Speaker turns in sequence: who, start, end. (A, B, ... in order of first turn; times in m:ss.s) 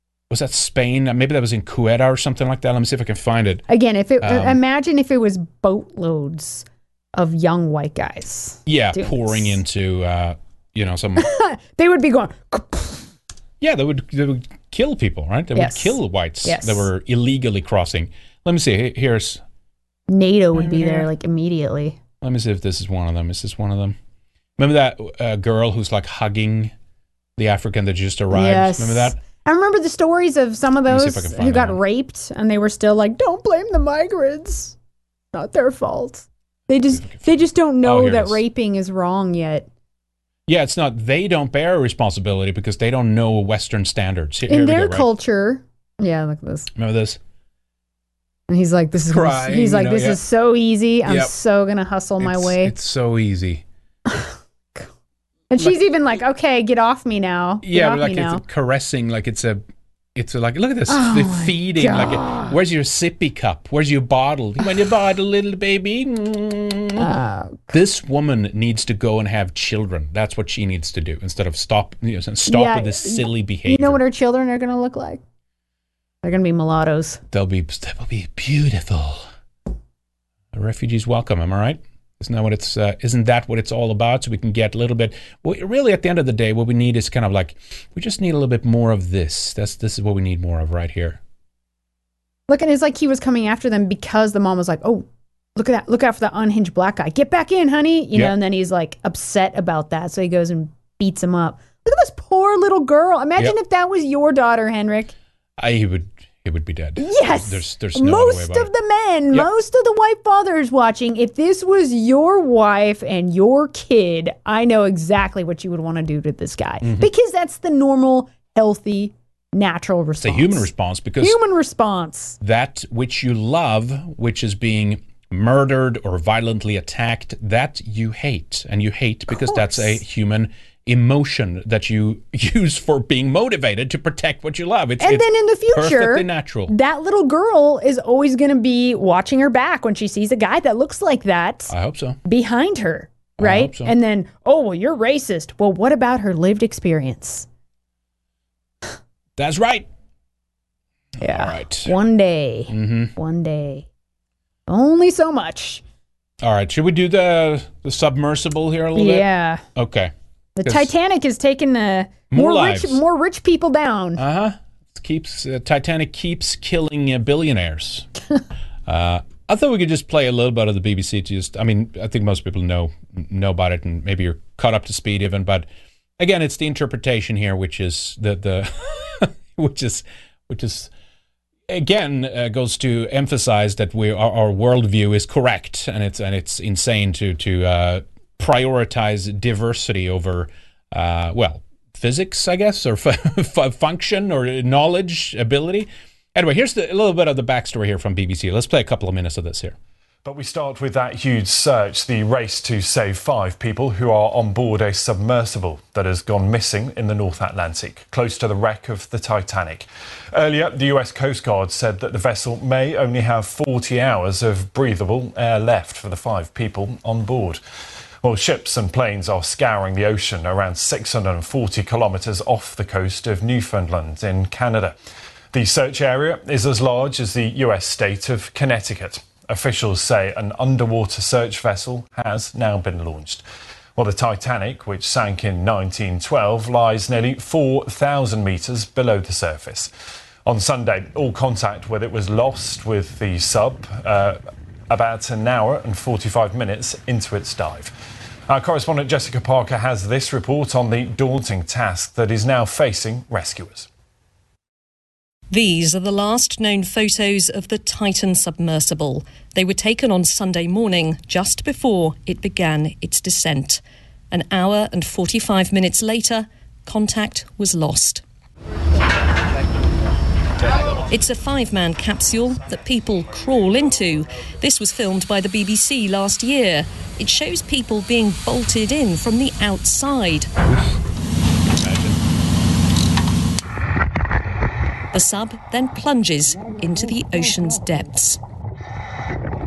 0:00.3-0:03.6 A
0:03.7-0:09.6 B
0:04.2-0:04.6 A
0:08.6-0:11.2 A
0:11.2-0:13.1 B
0:13.6-0:19.4 A
0:15.5-0:16.9 B
0:20.1-0:22.0 B
0:20.5-0:21.1 A
0:22.2-0:24.0 A
0:24.6-0:26.7 A
0:27.4-0:29.2 A
0:28.3-0:34.8 B
0:30.9-0:31.8 A
0:35.3-0:39.7 B
0:36.9-0:38.4 A
0:40.5-0:45.1 A
0:44.5-0:46.7 B
0:46.7-0:47.2 A
0:48.5-0:52.7 B
0:49.0-0:50.2 A
0:51.0-0:51.3 A
0:52.2-0:53.6 A
0:54.1-0:54.9 B
0:55.5-0:58.4 B
0:57.6-0:59.6 A
1:00.1-1:07.1 A
1:00.9-1:02.5 B
1:07.0-1:07.7 B
1:07.7-1:14.0 A
1:12.5-1:15.2 B
1:16.2-1:17.2 B
1:17.3-1:19.2 A
1:20.5-1:31.2 A
1:32.5-1:45.1 B
1:45.6-1:48.7 A
1:47.0-2:00.7 B
1:56.8-1:57.1 A
2:00.2-2:01.4 A
2:01.2-2:02.4 B
2:02.4-2:16.7 A
2:09.3-2:10.0 B
2:15.0-2:21.7 B
2:21.7-2:22.2 A
2:22.2-2:27.5 B
2:23.4-2:23.9 A
2:29.4-2:29.9 A
2:31.2-2:33.9 B
2:31.2-2:31.9 A
2:32.7-2:33.1 A
2:34.7-2:35.8 B
2:36.4-2:40.1 A
2:39.0-2:39.6 B
2:40.6-2:44.2 B
2:40.6-2:40.9 A
2:42.3-2:43.0 A
2:44.2-2:48.1 A
2:48.8-2:55.7 A
2:56.2-3:00.9 A
3:01.7-3:19.8 A
3:20.2-3:37.6 C
3:38.2-3:44.9 C
3:45.5-3:53.4 C
3:54.0-3:59.9 C
4:00.4-4:04.4 C
4:04.9-4:07.9 C
4:08.5-4:13.9 C
4:15.5-4:28.2 D
4:31.1-4:40.5 D
4:41.8-4:42.2 A
4:45.1-4:48.4 D